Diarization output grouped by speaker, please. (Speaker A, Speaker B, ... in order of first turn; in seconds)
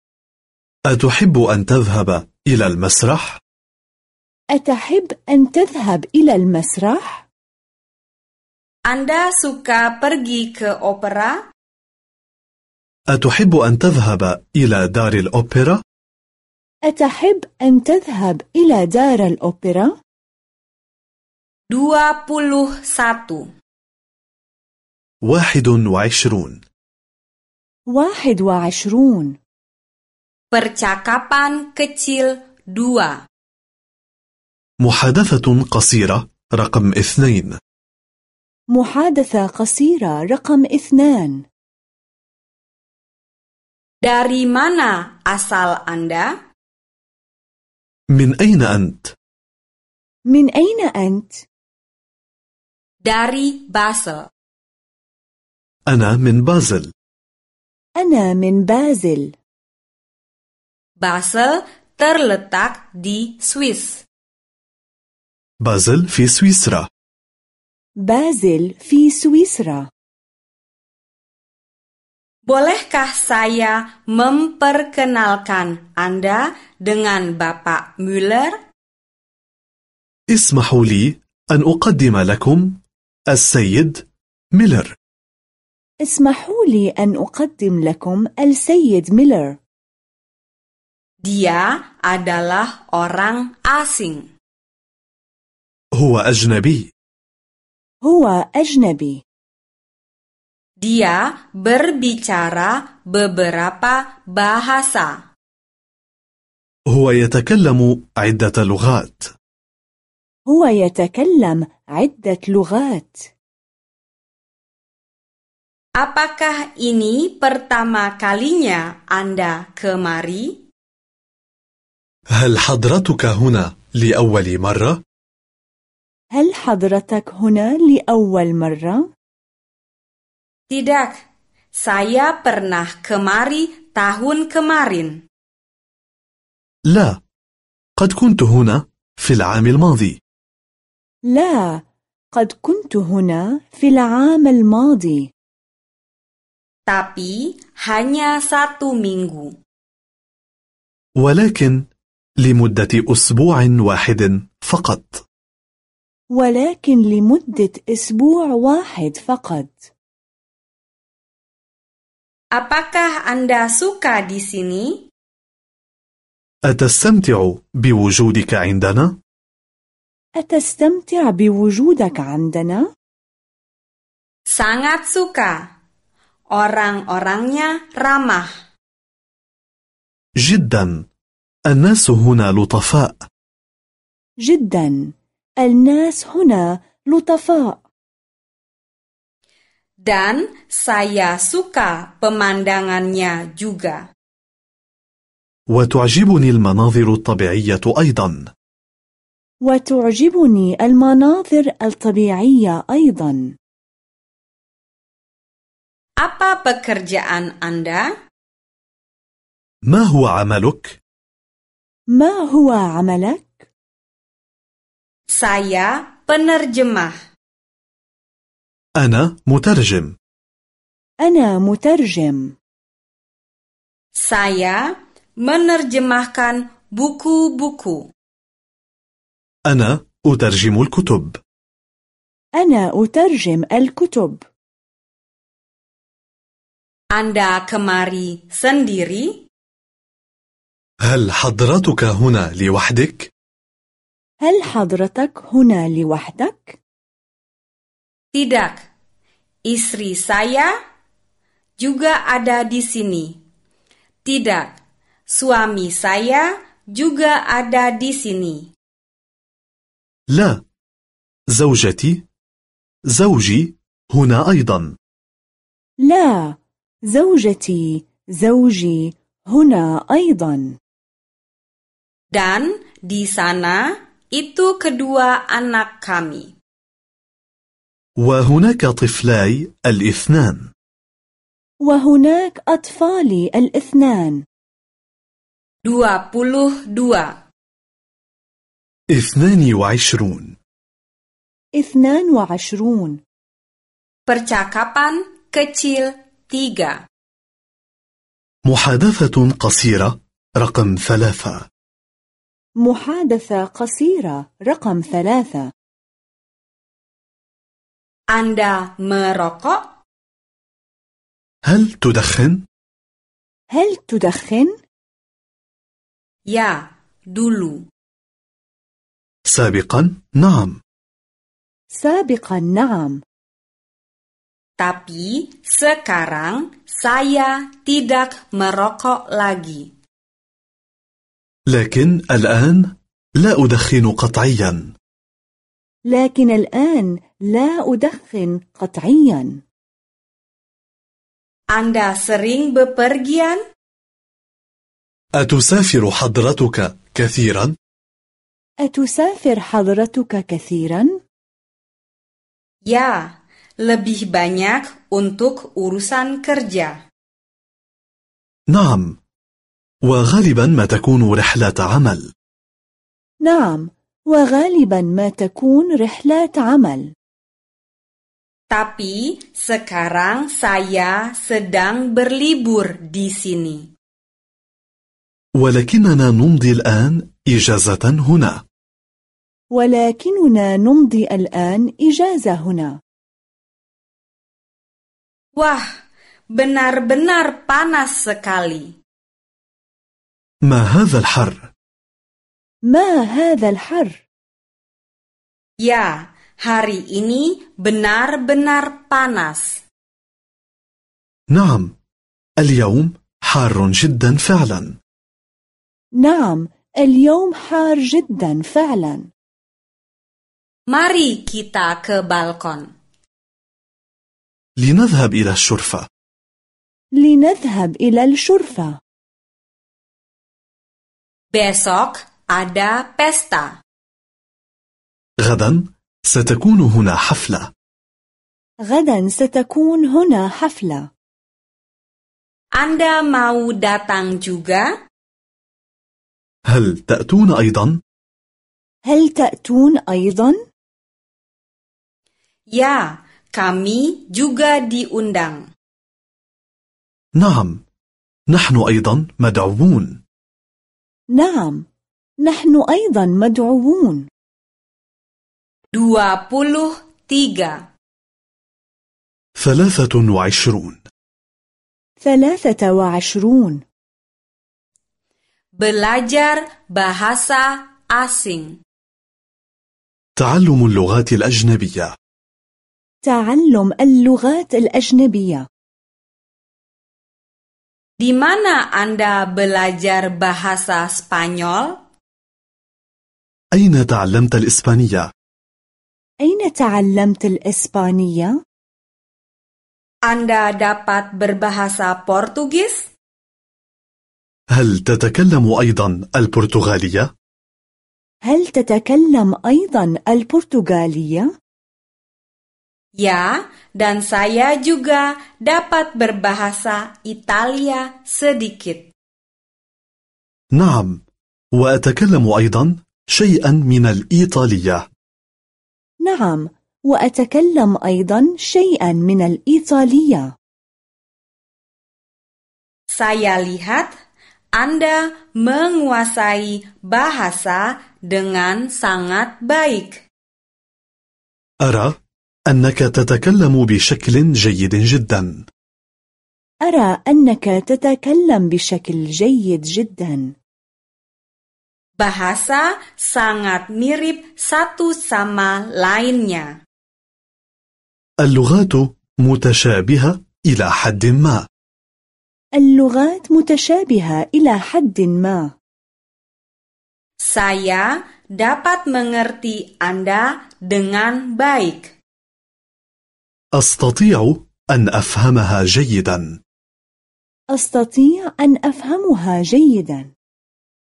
Speaker A: 0.9-3.4, 13.1-15.8, 25.2-26.6, 34.8-37.6, 48.1-49.1, 55.9-56.9, 65.6-66.9, 80.3-85.0, 95.9-96.9, 106.9-109.3, 122.3-125.0, 136.9-137.2, 138.0-140.2, 151.2-151.9, 152.4-155.2, 166.6-169.2, 180.4-181.1, 181.7-183.2, 195.7-198.5, 209.9-211.0, 219.0-220.2, 229.7-231.4, 241.0-243.3, 260.3-260.6, 261.5-262.3, 263.1-264.9, 278.2-280.7, 289.1-290.6, 298.6-301.6, 311.6-312.6, 319.5-320.8, 331.7-334.9, 345.4-347.8, 358.7-359.2, 360.0-362.3, 375.6-378.6, 390.6-391.7, 401.5-401.9, 402.6-405.0, 414.8-416.1, 425.4-427.7, 436.7-438.0, 447.4-447.8, 448.5-450.2, 459.6-461.0, 470.4-472.1, 483.7-485.3, 494.7-497.3, 510.7-511.2, 511.7-515.1, 531.8-532.2, 532.7-535.6, 548.4-551.7, 563.7-566.6
Speaker B: 4.5-7.2, 16.9-19.9, 27.9-29.4, 38.7-41.4, 50.3-51.4, 58.0-59.3, 68.0-69.9, 86.0-89.6, 98.0-99.2, 110.5-113.3, 126.3-129.1, 141.3-145.3, 156.3-159.9, 170.4-172.9, 184.4-187.8, 199.6-203.5, 212.1-213.7, 221.2-222.5, 232.6-234.4, 244.4-246.8, 266.0-270.8, 281.8-284.4, 291.8-293.2, 302.8-305.7, 313.7-314.7, 321.9-323.2, 336.1-339.6, 348.8-351.2, 363.4-367.1, 379.7-383.0, 392.9-394.2, 406.2-409.3, 417.2-419.0, 428.9-431.1, 439.1-440.6, 451.3-451.9, 452.4-454.3, 462.2-463.8, 473.2-475.7, 486.4-488.6, 498.4-501.5, 516.2-520.5, 536.9-540.5, 552.8-555.7, 567.7-570.3
Speaker C: 8.9-11.4, 21.7-23.5, 30.5-33.2, 44.0-46.3, 53.0-54.3, 61.0-64.0, 72.5-78.6, 91.2-94.3, 100.8-105.2, 116.0-120.6, 130.7-131.2, 131.8-135.2, 146.9-149.6, 162.5-165.0, 174.5-175.7, 176.5-178.6, 190.0-194.1, 206.2-208.1, 215.3-217.2, 224.2-228.1, 237.1-239.4, 248.3-248.8, 249.7-250.7, 251.8-253.4, 254.2-254.7, 255.3-258.7, 272.3-276.5, 285.9-287.4, 294.3-297.0, 308.3-309.9, 316.5-317.9, 324.8-329.9, 341.7-343.6, 352.9-357.0, 368.7-373.9, 385.6-385.9, 386.5-388.9, 395.8-399.8, 410.9-412.9, 421.5-423.7, 432.8-434.9, 442.7-445.6, 455.9-457.8, 465.8-468.8, 478.2-482.0, 490.3-493.1, 503.2-509.1, 523.1-524.2, 524.8-530.2, 542.2-546.8, 557.4-562.1